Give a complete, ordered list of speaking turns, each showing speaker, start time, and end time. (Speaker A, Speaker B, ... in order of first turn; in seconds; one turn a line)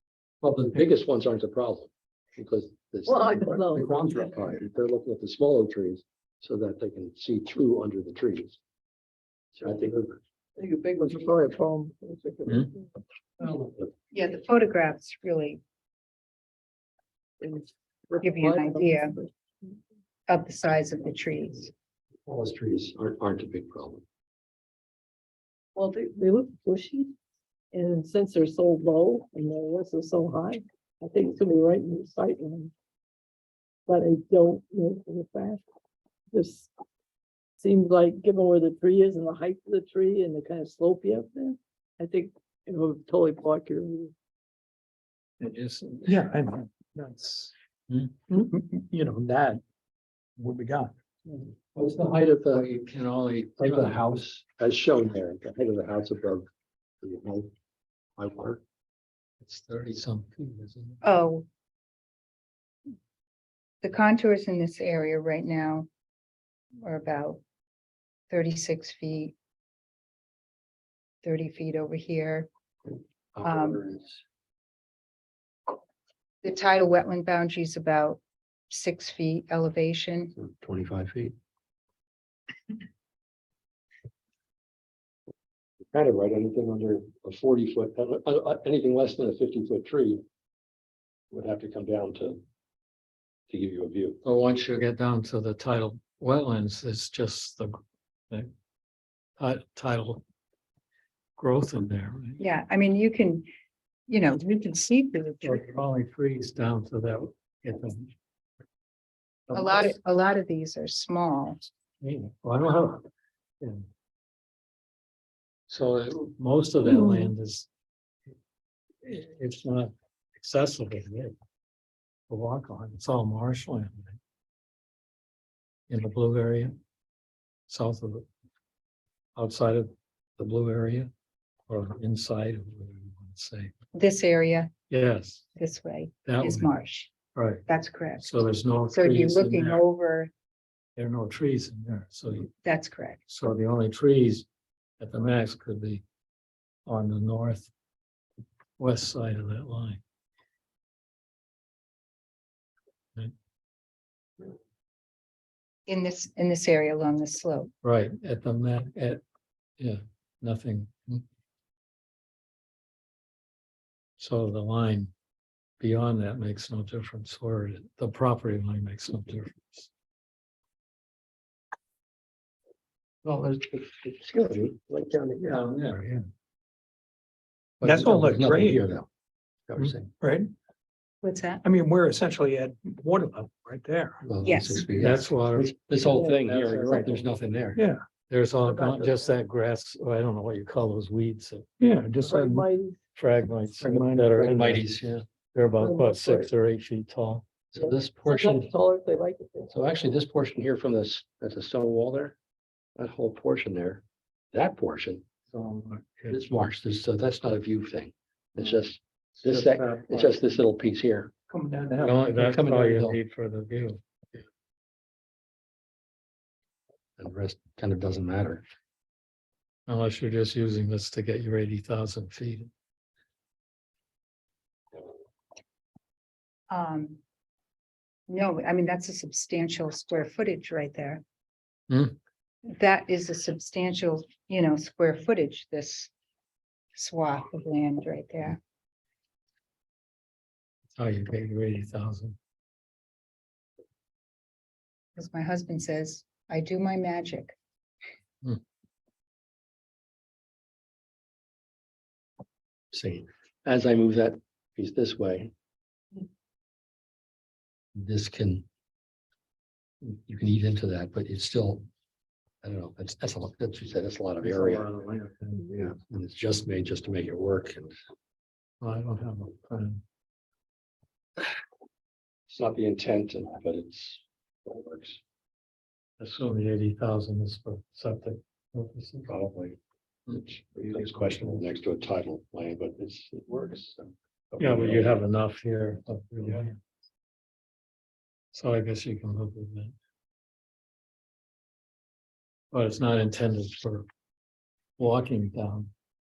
Speaker A: 0.4-8.6
Speaker B: 3.0-4.0
Speaker A: 9.6-10.2
Speaker B: 10.6-12.8
Speaker A: 13.4-13.9
Speaker C: 14.1-15.6
Speaker B: 17.4-19.7
Speaker C: 18.2-19.1
Speaker C: 20.3-21.7
Speaker A: 22.2-24.0
Speaker B: 25.8-27.1
Speaker B: 27.7-32.7
Speaker B: 33.9-35.6
Speaker B: 36.3-36.7
Speaker B: 37.6-44.1
Speaker D: 45.4-46.2
Speaker E: 46.0-47.5
Speaker D: 47.9-48.2
Speaker E: 48.3-49.6
Speaker E: 50.4-50.9
Speaker A: 51.7-52.7
Speaker D: 52.4-54.0
Speaker A: 53.6-56.5
Speaker A: 57.0-57.5
Speaker A: 58.2-58.6
Speaker D: 59.4-61.0
Speaker C: 61.0-61.5
Speaker C: 63.8-65.9
Speaker C: 66.8-67.4
Speaker C: 68.3-69.3
Speaker C: 71.2-72.5
Speaker A: 73.3-74.2
Speaker C: 73.4-73.8
Speaker C: 76.4-80.3
Speaker A: 80.4-81.3
Speaker A: 85.9-90.2
Speaker A: 91.3-92.4
Speaker A: 93.5-94.2
Speaker D: 94.2-97.8
Speaker D: 99.4-100.2
Speaker D: 101.4-102.4
Speaker C: 102.4-103.5
Speaker C: 104.1-105.6
Speaker D: 105.4-108.1
Speaker D: 109.5-109.9
Speaker C: 109.5-111.6
Speaker D: 112.0-113.0
Speaker D: 113.6-113.8
Speaker D: 115.7-117.7
Speaker D: 119.0-121.3
Speaker D: 122.3-124.2
Speaker D: 125.9-126.7
Speaker D: 127.7-128.2
Speaker D: 129.3-131.1
Speaker D: 131.7-133.7
Speaker C: 133.9-134.7
Speaker D: 134.9-135.5
Speaker C: 135.6-137.1
Speaker D: 136.2-136.7
Speaker D: 137.3-137.6
Speaker C: 137.7-138.2
Speaker D: 138.2-139.8
Speaker C: 138.9-140.3
Speaker D: 140.9-142.5
Speaker C: 142.6-143.2
Speaker D: 143.3-144.4
Speaker D: 145.0-146.0
Speaker D: 146.8-147.7
Speaker D: 148.8-150.0
Speaker C: 155.9-157.7
Speaker D: 157.8-159.2
Speaker D: 159.8-161.2
Speaker D: 164.2-165.1
Speaker D: 165.8-169.9
Speaker A: 173.2-176.0
Speaker D: 175.4-176.2
Speaker A: 177.8-179.1
Speaker E: 177.8-178.9
Speaker A: 179.7-180.1
Speaker E: 180.2-180.5
Speaker C: 181.2-181.6
Speaker E: 181.6-184.2
Speaker A: 184.2-187.8
Speaker C: 184.4-184.9
Speaker D: 185.0-187.4
Speaker B: 186.1-186.4
Speaker E: 187.7-188.0
Speaker D: 188.3-191.7
Speaker B: 188.6-189.2
Speaker E: 191.8-192.6
Speaker B: 192.2-192.9
Speaker D: 193.2-197.5
Speaker A: 193.8-195.2
Speaker B: 195.8-196.5
Speaker A: 197.7-198.7
Speaker B: 197.8-199.8
Speaker A: 199.7-202.4
Speaker A: 203.0-205.2
Speaker D: 205.5-206.4
Speaker A: 206.3-211.3
Speaker D: 209.4-210.3
Speaker E: 211.5-212.4
Speaker D: 212.0-214.0
Speaker A: 212.3-213.2
Speaker A: 217.2-218.6
Speaker D: 219.9-222.7
Speaker C: 226.7-227.2
Speaker C: 228.3-231.2
Speaker D: 231.9-232.1
Speaker C: 232.7-236.1
Speaker C: 236.9-238.6
Speaker D: 241.0-242.3
Speaker C: 245.2-247.5
Speaker A: 252.9-255.5
Speaker A: 257.9-258.6
Speaker A: 260.0-261.9
Speaker A: 262.6-264.9
Speaker D: 264.4-265.9
Speaker A: 265.8-267.9
Speaker D: 268.8-270.0
Speaker A: 272.5-275.2
Speaker D: 276.2-279.3
Speaker A: 279.3-285.1
Speaker D: 284.6-286.8
Speaker D: 288.5-289.9
Speaker D: 292.7-294.1
Speaker D: 295.0-295.9